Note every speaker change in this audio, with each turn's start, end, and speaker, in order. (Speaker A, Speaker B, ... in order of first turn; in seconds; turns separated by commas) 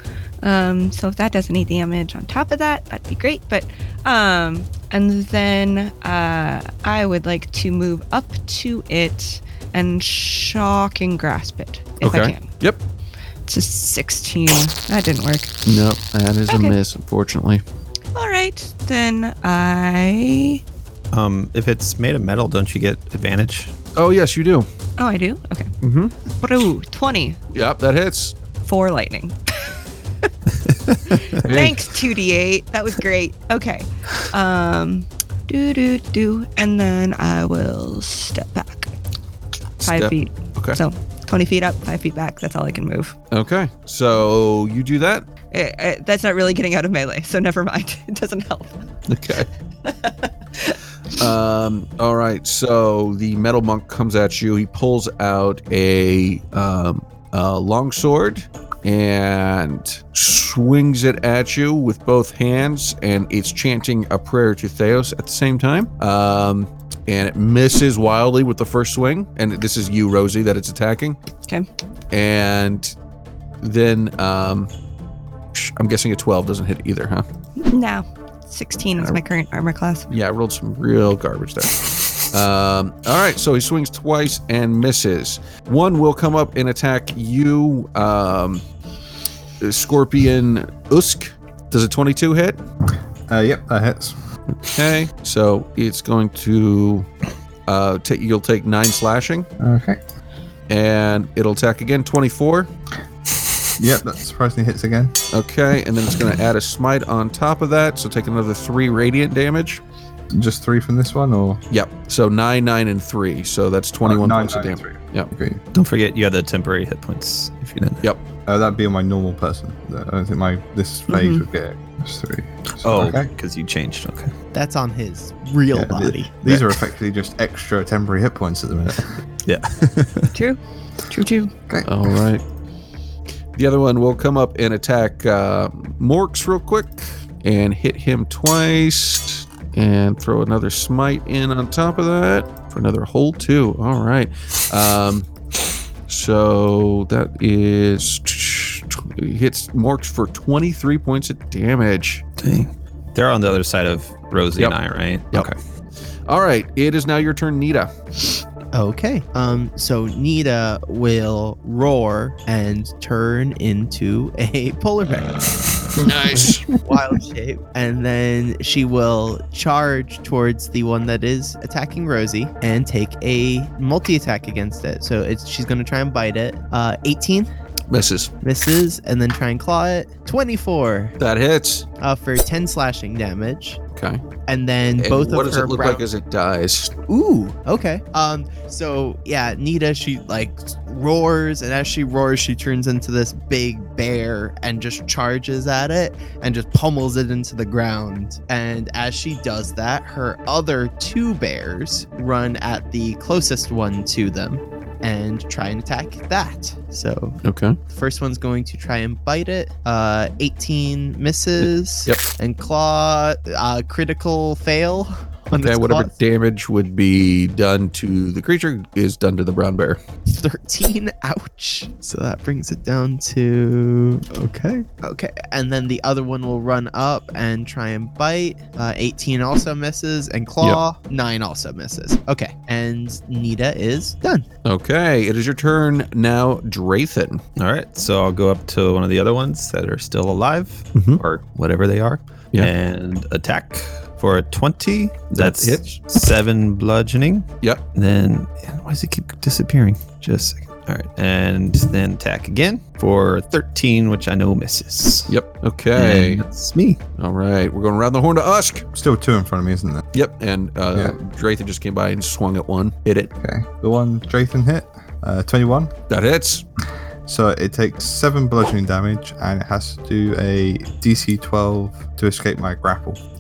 Speaker A: 0.4-12.5, Speaker B: 12.0-12.8, Speaker A: 13.5-15.5, Speaker B: 15.7-17.6, Speaker A: 16.5-16.8, Speaker A: 18.1-20.6, Speaker C: 21.1-23.7, Speaker B: 23.9-24.7, Speaker A: 25.0-25.7, Speaker B: 25.8-26.1, Speaker A: 26.4-27.4, Speaker B: 27.5-28.4, Speaker A: 28.6-29.8, Speaker C: 30.6-31.4, Speaker A: 31.2-38.9, Speaker B: 31.4-31.8, Speaker B: 39.8-40.8, Speaker A: 39.8-43.1, Speaker B: 43.3-45.3, Speaker A: 45.5-48.8, Speaker B: 49.1-49.5, Speaker A: 49.9-50.8, Speaker B: 51.2-71.2, Speaker B: 72.1-72.9, Speaker B: 73.6-74.7, Speaker B: 75.5-77.2, Speaker A: 77.7-80.1, Speaker B: 80.1-88.6, Speaker B: 89.6-92.6, Speaker D: 93.3-94.2, Speaker B: 94.6-97.1, Speaker B: 97.7-99.5, Speaker D: 99.6-100.0, Speaker B: 100.7-102.7, Speaker D: 103.8-105.2, Speaker B: 105.3-109.8, Speaker D: 110.3-111.6, Speaker B: 111.7-115.3, Speaker D: 114.0-115.6, Speaker C: 115.7-118.1, Speaker D: 118.5-123.3, Speaker A: 121.1-121.4, Speaker C: 122.8-124.3, Speaker E: 124.5-126.7, Speaker D: 125.7-129.2, Speaker C: 129.4-130.4, Speaker A: 130.3-131.5, Speaker B: 131.9-132.4, Speaker B: 133.6-145.3, Speaker B: 146.1-152.2, Speaker C: 152.4-155.6, Speaker B: 156.3-157.9, Speaker E: 158.7-177.5, Speaker B: 166.0-166.7, Speaker B: 177.9-178.3, Speaker E: 178.4-181.2, Speaker B: 181.2-181.9, Speaker E: 182.0-183.8, Speaker B: 183.9-184.2, Speaker E: 184.5-186.0, Speaker B: 185.0-186.9, Speaker E: 187.1-216.1, Speaker B: 207.4-207.8, Speaker B: 211.6-212.2, Speaker B: 215.6-220.0, Speaker E: 220.3-234.5, Speaker B: 234.7-237.4, Speaker C: 237.6-255.3, Speaker B: 240.9-241.2, Speaker B: 245.3-246.0, Speaker B: 255.3-256.4, Speaker C: 255.9-257.0, Speaker B: 257.2-258.9, Speaker D: 259.0-260.0, Speaker B: 260.1-263.3, Speaker D: 263.4-265.9, Speaker B: 266.1-266.6, Speaker D: 267.3-273.2